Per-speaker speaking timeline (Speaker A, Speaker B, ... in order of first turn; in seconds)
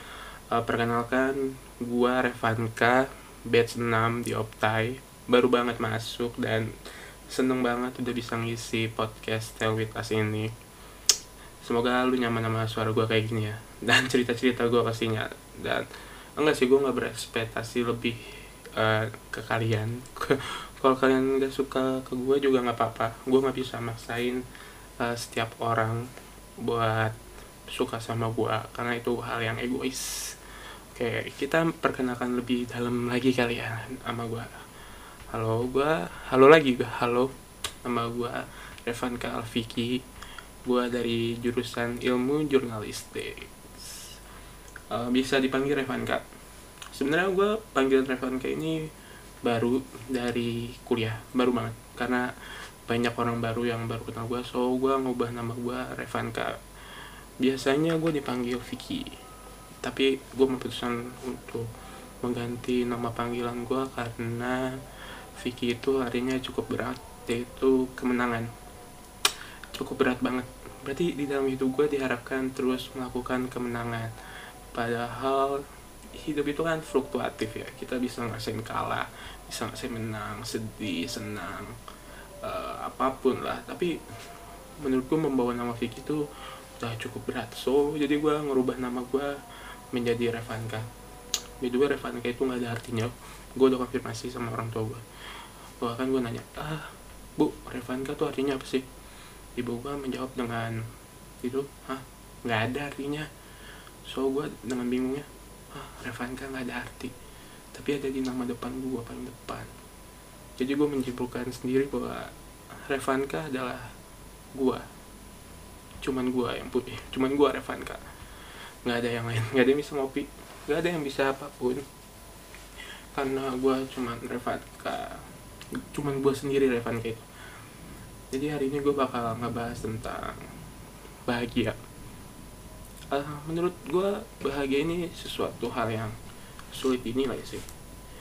Speaker A: 0.5-6.7, 7.3-10.5, 11.6-15.9, 16.4-18.2, 18.8-24.4, 25.0-26.0, 26.6-27.1, 27.7-30.4, 30.9-34.5, 35.3-37.3, 37.8-40.0, 40.7-44.1, 44.9-46.2, 46.9-48.8, 49.4-52.3, 52.9-56.6, 57.4-59.1, 59.8-61.7, 62.2-64.8, 65.4-68.5, 69.7-74.1, 74.7-75.6, 76.2-81.8, 82.4-83.9, 84.8-86.2, 86.8-89.3, 89.9-90.9, 91.6-95.0, 95.8-98.9, 99.6-100.8, 101.4-103.3, 104.1-107.1, 107.7-109.7, 110.6-112.3, 112.9-113.9, 114.5-114.8, 116.0-118.0, 118.8-121.8, 123.2-125.2, 125.8-127.2, 128.3-130.4, 131.3-131.8, 133.1-136.2, 136.7-137.7